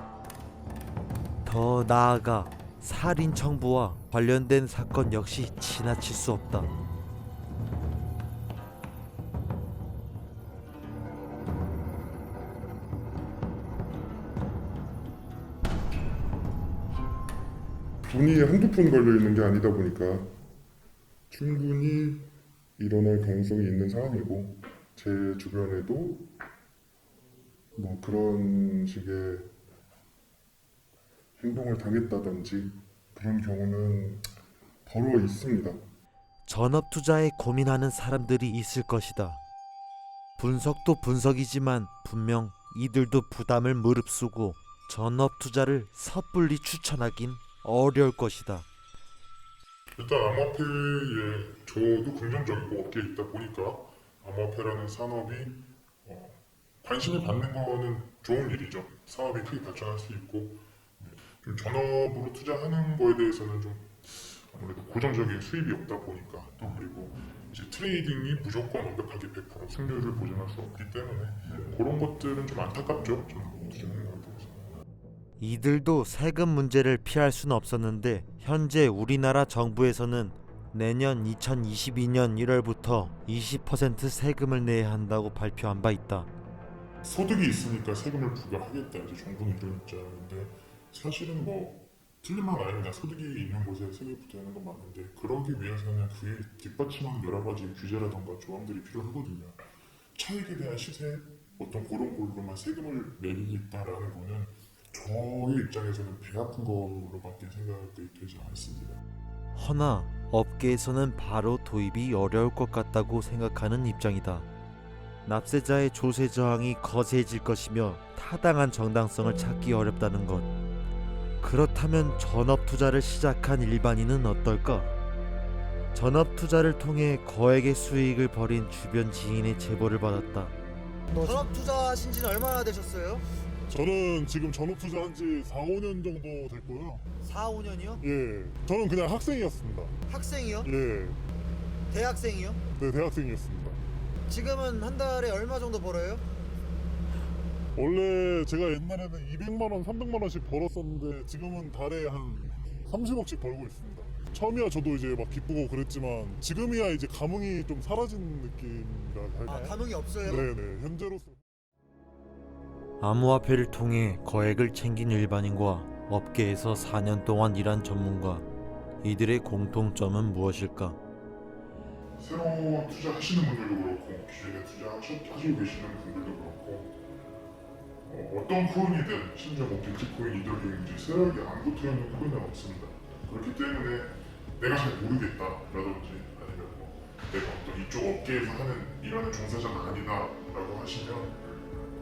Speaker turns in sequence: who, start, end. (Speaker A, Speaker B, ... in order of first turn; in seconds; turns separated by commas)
Speaker A: 1.4-6.7, Speaker B: 18.0-20.3, Speaker B: 21.3-22.2, Speaker B: 22.8-26.2, Speaker B: 27.8-29.5, Speaker B: 31.4-34.3, Speaker B: 34.9-35.8, Speaker A: 36.4-39.4, Speaker A: 40.4-48.7, Speaker C: 50.0-74.7, Speaker A: 75.4-86.3, Speaker C: 87.0-99.6, Speaker C: 100.1-109.0, Speaker A: 109.5-114.5, Speaker A: 115.2-120.5, Speaker A: 121.4-124.9, Speaker A: 125.9-130.6, Speaker D: 131.1-133.2, Speaker E: 133.7-137.1, Speaker D: 137.2-138.0, Speaker E: 138.0-140.0, Speaker D: 140.1-140.7, Speaker E: 140.6-141.2, Speaker D: 141.9-142.6, Speaker E: 142.7-143.8, Speaker D: 144.3-146.2, Speaker E: 147.7-161.4, Speaker D: 159.5-160.5, Speaker A: 163.0-168.5, Speaker A: 169.0-171.0, Speaker C: 172.2-176.9, Speaker C: 178.0-191.6